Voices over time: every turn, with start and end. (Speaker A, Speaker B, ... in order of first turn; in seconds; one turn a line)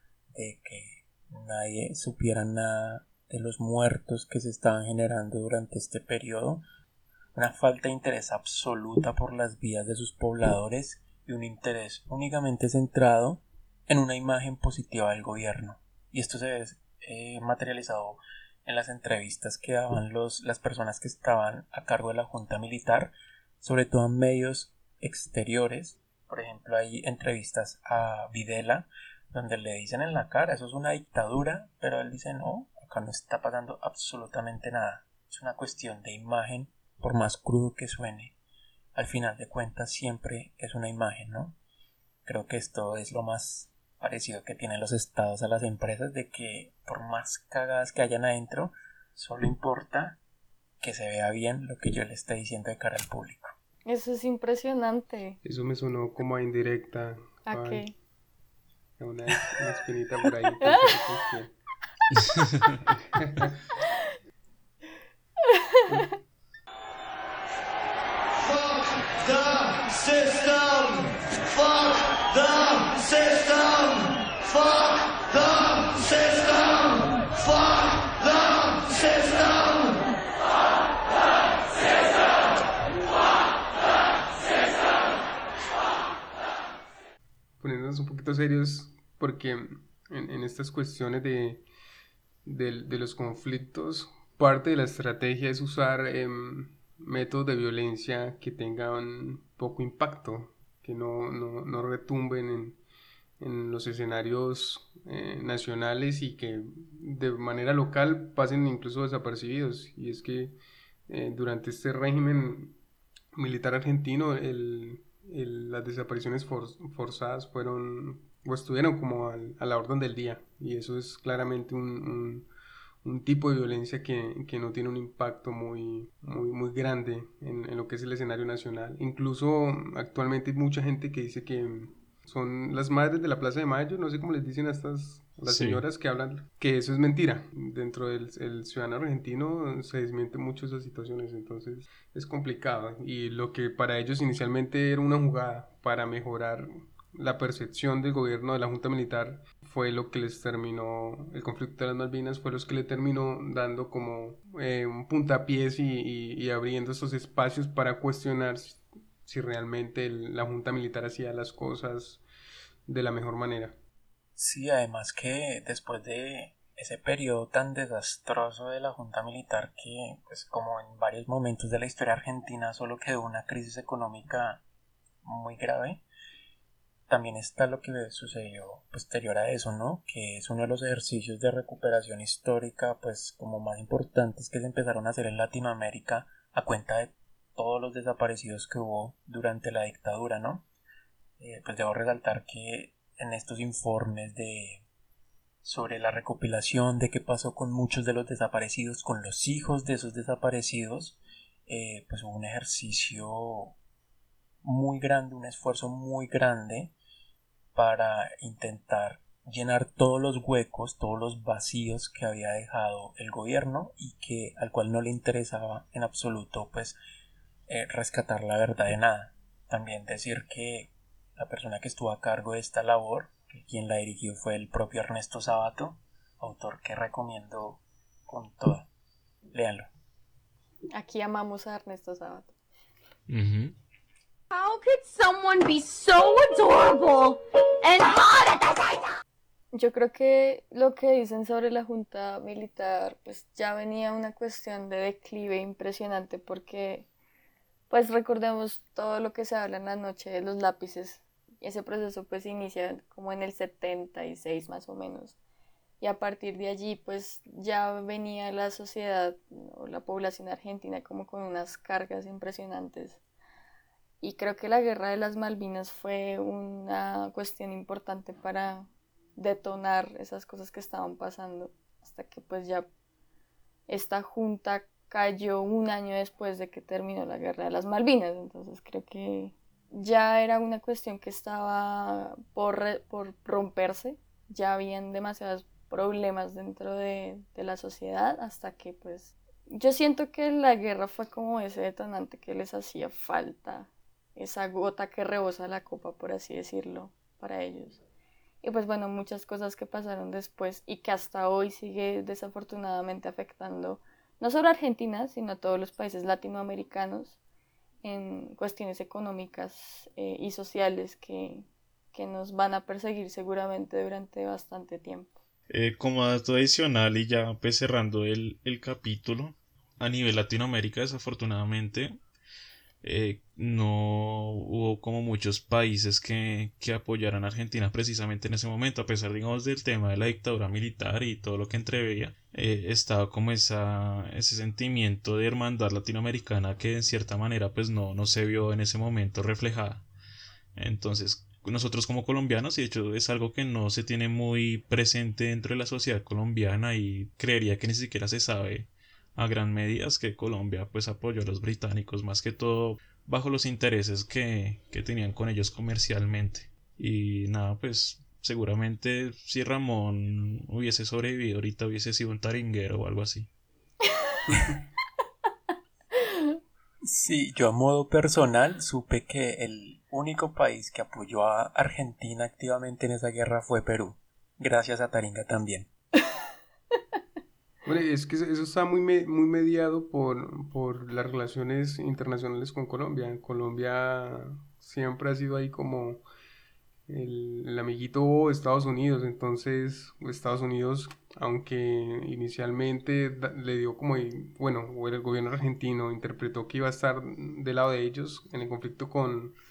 Speaker A: 0.3-6.6
Speaker A: 7.3-38.3
Speaker A: 38.9-41.6
Speaker A: 42.2-50.2
Speaker A: 50.8-53.5
Speaker B: 53.9-55.4
Speaker C: 55.4-57.8
Speaker B: 57.5-57.9
Speaker C: 59.0-61.5
Speaker C: 63.0-63.5
Speaker D: 69.1-80.0
Speaker C: 87.6-91.6
Speaker C: 92.5-102.8
Speaker C: 103.4-110.6
Speaker C: 111.1-112.8
Speaker C: 113.3-122.5
Speaker C: 123.0-162.2
Speaker E: 135.5-135.8
Speaker C: 162.9-163.8
Speaker A: 164.4-174.6
Speaker A: 175.2-176.0
Speaker A: 177.1-190.7
Speaker A: 191.4-194.8
Speaker A: 195.6-203.8
Speaker A: 204.6-206.9
Speaker A: 207.7-217.0
Speaker A: 217.7-228.9
Speaker A: 229.5-229.9
Speaker B: 230.9-232.5
Speaker E: 233.3-233.7
Speaker D: 234.5-239.1
Speaker B: 239.7-247.1
Speaker B: 247.9-255.3
Speaker B: 256.0-263.2
Speaker B: 264.2-272.9
Speaker B: 273.9-298.0
Speaker B: 298.6-307.4
Speaker B: 308.0-315.4
Speaker E: 315.7-322.1
Speaker E: 323.0-340.1
Speaker E: 340.8-363.5
Speaker A: 367.0-375.9
Speaker C: 377.8-386.2
Speaker C: 387.1-399.6